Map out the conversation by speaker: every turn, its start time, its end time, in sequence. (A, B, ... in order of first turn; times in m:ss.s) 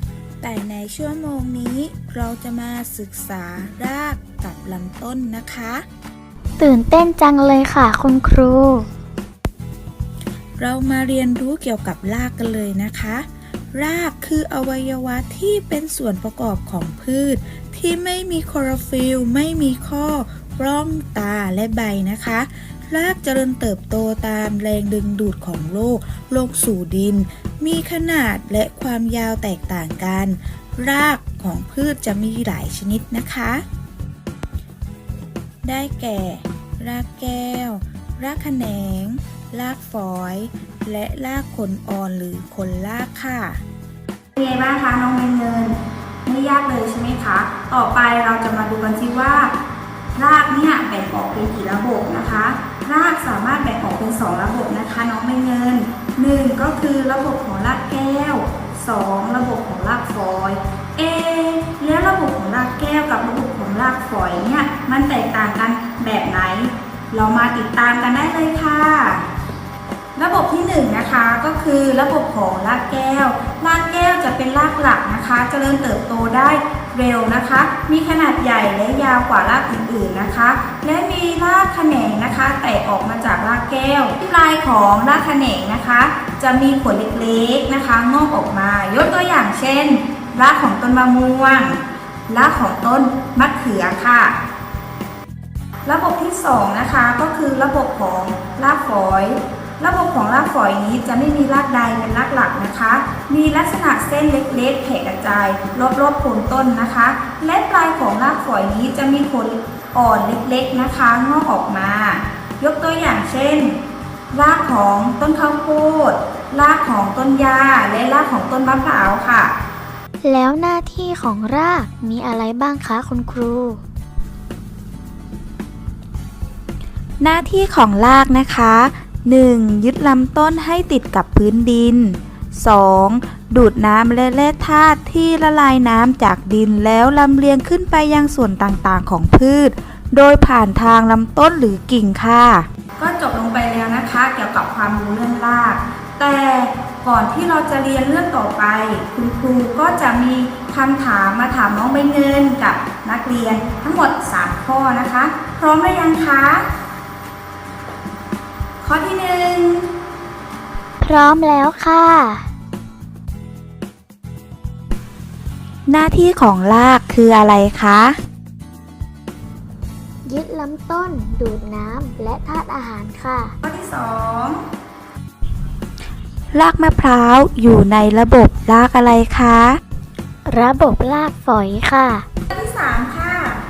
0:00.4-0:05.8 A
0:06.6-0:08.9 B
0:10.6-0:33.6 A
0:35.6-0:43.6 A
0:44.4-0:49.5 C
0:50.2-1:09.2 C
1:10.2-1:31.8 C
1:32.3-1:34.4 C
1:35.9-1:53.8 C
1:54.3-1:59.5 C
2:00.2-2:03.8 B
2:07.2-2:22.7 A
2:23.0-2:36.7 C
2:38.8-2:39.9 C
2:41.0-2:42.5 B
2:45.9-2:48.2 A
2:50.3-2:53.5 B
2:53.6-2:54.6 C
2:56.5-2:59.8 A
3:00.5-3:02.3 B
3:02.5-3:03.6 C